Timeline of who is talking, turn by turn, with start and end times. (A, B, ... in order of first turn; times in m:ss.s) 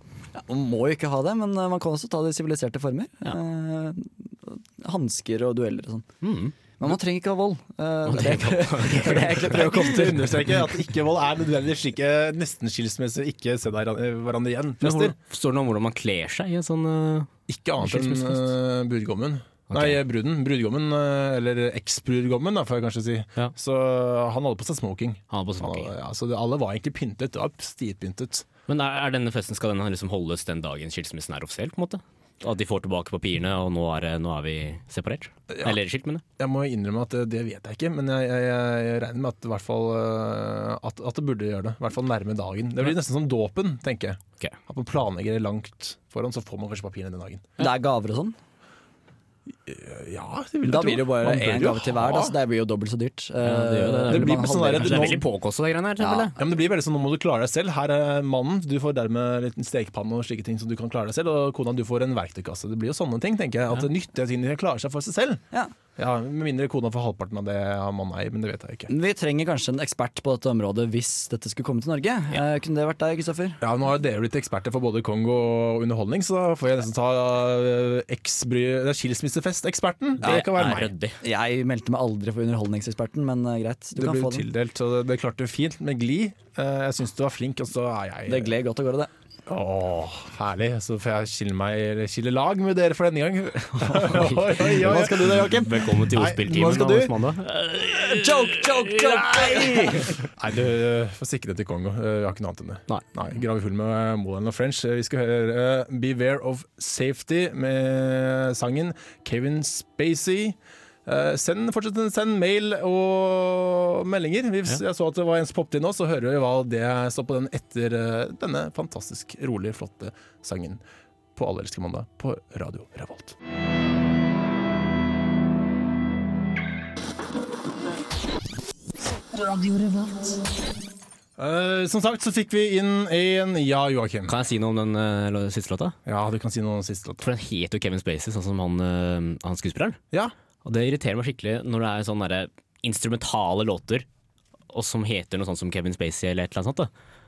0:00.4-0:06.0 A
0:06.2-0:06.5 B
0:06.8-0:10.4 A
0:08.0-0:10.3 B
0:09.2-0:15.1 C
0:14.8-0:17.3 B
0:17.5-0:28.4 C
0:17.8-0:18.5 B
0:19.7-0:20.0 B
0:25.3-0:25.9 B
0:28.7-0:36.2 B
0:35.5-0:35.8 C
0:36.4-0:47.5 C
0:47.6-0:48.4 A
0:49.6-0:52.4 C
0:50.6-0:55.2 A
0:53.4-0:56.4 B
0:54.1-0:55.2 C
0:56.0-0:56.3 A
0:56.4-1:05.4 C
1:06.0-1:08.9 C
1:08.9-1:13.6 A
1:13.6-1:20.9 C
1:20.2-1:21.2 B
1:20.2-1:20.5 A
1:21.2-1:24.4 A
1:24.0-1:28.5 C
1:28.3-1:29.1 A
1:29.5-1:37.1 C
1:33.8-1:35.8 A
1:34.8-1:40.1 B
1:37.8-1:40.2 A
1:40.3-2:00.8 C
2:01.4-2:03.3 C
2:11.4-2:14.3 C
2:14.3-2:15.9 B
2:16.0-2:17.2 C
2:17.2-2:20.0 B
2:20.6-2:24.0 B
2:24.7-2:26.9 B